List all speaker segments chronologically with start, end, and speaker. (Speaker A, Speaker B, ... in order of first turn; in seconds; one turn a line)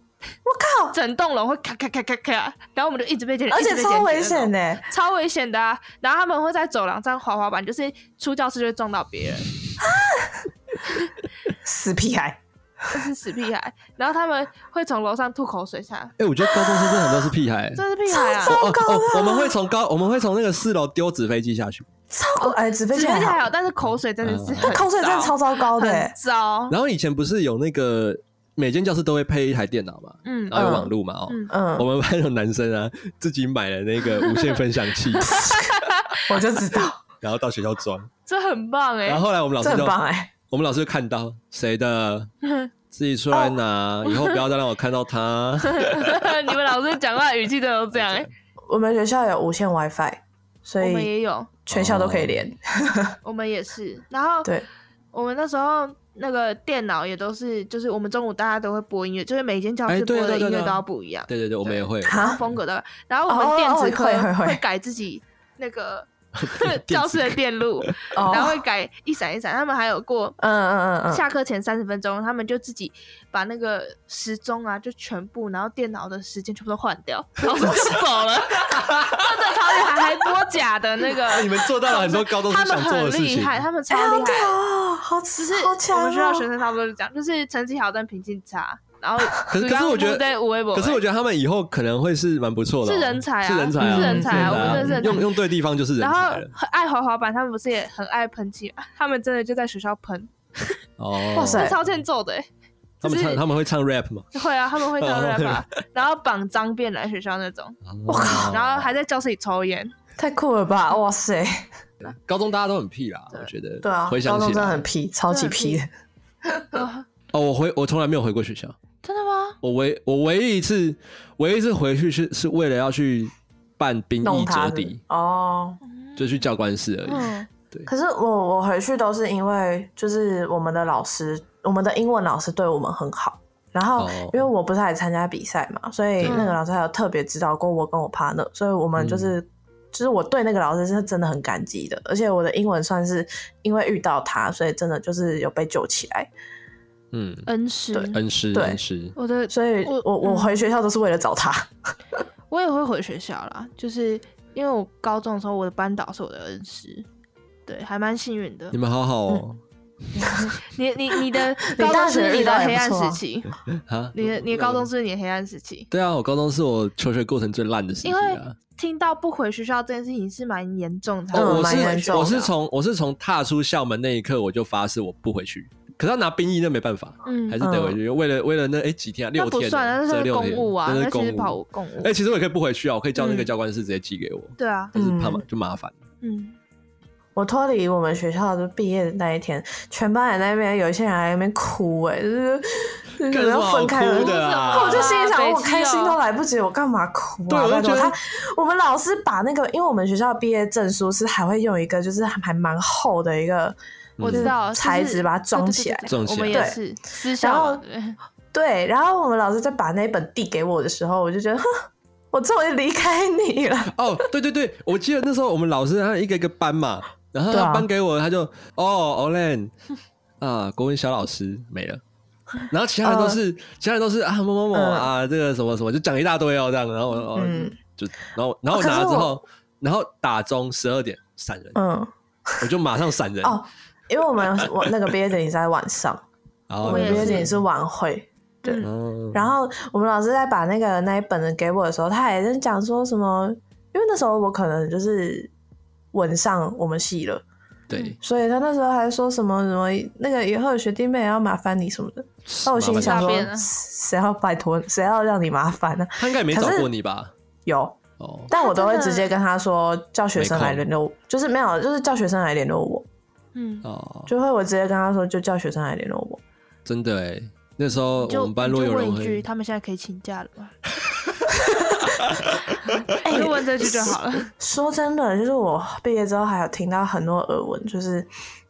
Speaker A: 0.5-1.0
Speaker B: 0.9-9.6
Speaker A: 3.5-4.9
Speaker A: 9.8-10.5
Speaker A: 11.6-13.0
Speaker B: 12.9-16.1
Speaker C: 16.2-17.8
Speaker A: 16.4-17.3
Speaker B: 17.8-18.6
Speaker A: 18.1-19.6
Speaker C: 18.4-21.9
Speaker A: 22.1-23.5
Speaker B: 22.4-26.8
Speaker C: 24.2-24.8
Speaker A: 24.6-26.1
Speaker C: 26.7-35.6
Speaker B: 30.2-30.7
Speaker A: 30.5-30.9
Speaker B: 31.3-31.5
Speaker A: 31.5-31.9
Speaker B: 34.2-34.6
Speaker A: 35.3-35.7
Speaker B: 35.3-36.4
Speaker A: 36.3-37.0
Speaker C: 37.2-38.1
Speaker B: 38.3-39.2
Speaker C: 39.1-40.0
Speaker A: 39.6-40.3
Speaker C: 40.5-42.3
Speaker B: 42.4-42.7
Speaker C: 42.9-46.2
Speaker B: 44.1-44.4
Speaker B: 45.6-48.3
Speaker C: 47.9-48.3
Speaker A: 48.7-51.1
Speaker B: 50.8-51.5
Speaker A: 51.7-53.2
Speaker C: 51.7-52.4
Speaker B: 53.2-54.5
Speaker B: 55.1-70.4
Speaker C: 59.9-62.4
Speaker A: 62.0-62.4
Speaker A: 63.3-64.6
Speaker C: 66.4-67.9
Speaker A: 68.2-68.6
Speaker A: 70.4-71.2
Speaker B: 71.1-84.6
Speaker A: 77.6-77.9
Speaker C: 78.6-79.5
Speaker C: 81.3-83.6
Speaker A: 83.9-86.5
Speaker B: 85.3-91.0
Speaker C: 89.5-96.5
Speaker B: 92.8-95.3
Speaker A: 93.8-95.2
Speaker B: 96.0-100.8
Speaker C: 101.0-101.7
Speaker B: 101.3-102.5
Speaker A: 101.3-101.8
Speaker B: 103.0-103.4
Speaker C: 103.0-104.3
Speaker B: 104.3-107.8
Speaker C: 105.0-105.7
Speaker C: 107.9-108.9
Speaker A: 108.1-108.6
Speaker B: 108.3-109.9
Speaker A: 110.2-111.7
Speaker C: 112.0-114.8
Speaker A: 113.8-115.9
Speaker B: 115.3-115.8
Speaker A: 116.4-116.9
Speaker B: 116.8-117.1
Speaker C: 117.3-118.8
Speaker B: 119.0-119.6
Speaker C: 119.6-125.0
Speaker A: 124.2-125.8
Speaker B: 125.9-126.4
Speaker C: 126.2-127.9
Speaker B: 127.1-127.5
Speaker A: 127.9-146.3
Speaker C: 134.0-134.5
Speaker B: 136.2-136.6
Speaker C: 139.0-139.3
Speaker C: 147.1-147.5
Speaker B: 147.5-148.2
Speaker A: 147.9-148.8
Speaker C: 148.1-149.2
Speaker B: 149.2-150.5
Speaker A: 149.5-151.7
Speaker B: 152.5-157.1
Speaker B: 157.7-158.8
Speaker C: 158.7-159.6
Speaker B: 160.3-163.6
Speaker A: 161.6-163.2
Speaker C: 163.8-164.9
Speaker B: 164.2-165.9
Speaker C: 165.9-168.6
Speaker B: 168.0-172.5
Speaker A: 171.3-172.4
Speaker C: 171.3-185.9
Speaker B: 177.3-177.6
Speaker A: 177.6-178.0
Speaker B: 179.4-182.2
Speaker B: 183.2-183.5
Speaker B: 184.6-184.9
Speaker A: 184.9-185.4
Speaker B: 186.2-186.6
Speaker A: 187.4-206.8
Speaker C: 193.3-195.1
Speaker B: 194.1-196.2
Speaker C: 197.5-198.2
Speaker C: 204.2-204.5
Speaker B: 204.2-208.2
Speaker C: 206.1-206.7
Speaker A: 207.4-207.8
Speaker A: 208.5-211.7
Speaker A: 212.3-213.9
Speaker C: 213.9-219.7
Speaker A: 217.5-217.9
Speaker C: 220.4-222.0
Speaker C: 222.6-231.8
Speaker A: 223.0-223.4
Speaker A: 224.7-225.1
Speaker A: 227.3-227.8
Speaker A: 228.7-229.4
Speaker A: 231.8-232.6
Speaker C: 232.6-233.6
Speaker A: 233.4-236.2
Speaker C: 236.7-237.6
Speaker A: 236.8-245.5
Speaker B: 236.8-237.5
Speaker C: 238.8-239.5
Speaker A: 246.1-247.4
Speaker C: 247.9-248.2
Speaker A: 248.2-256.9
Speaker C: 252.5-253.4
Speaker B: 252.9-253.7
Speaker C: 256.2-257.3
Speaker A: 257.7-258.0
Speaker C: 258.2-258.5
Speaker A: 258.5-263.1
Speaker B: 258.5-259.3
Speaker C: 260.4-260.9
Speaker B: 263.6-263.9
Speaker C: 263.8-264.3
Speaker A: 264.3-266.4
Speaker C: 266.9-269.4
Speaker B: 268.2-270.8
Speaker A: 271.7-272.0
Speaker C: 272.2-272.9
Speaker B: 273.0-274.5
Speaker A: 273.2-278.3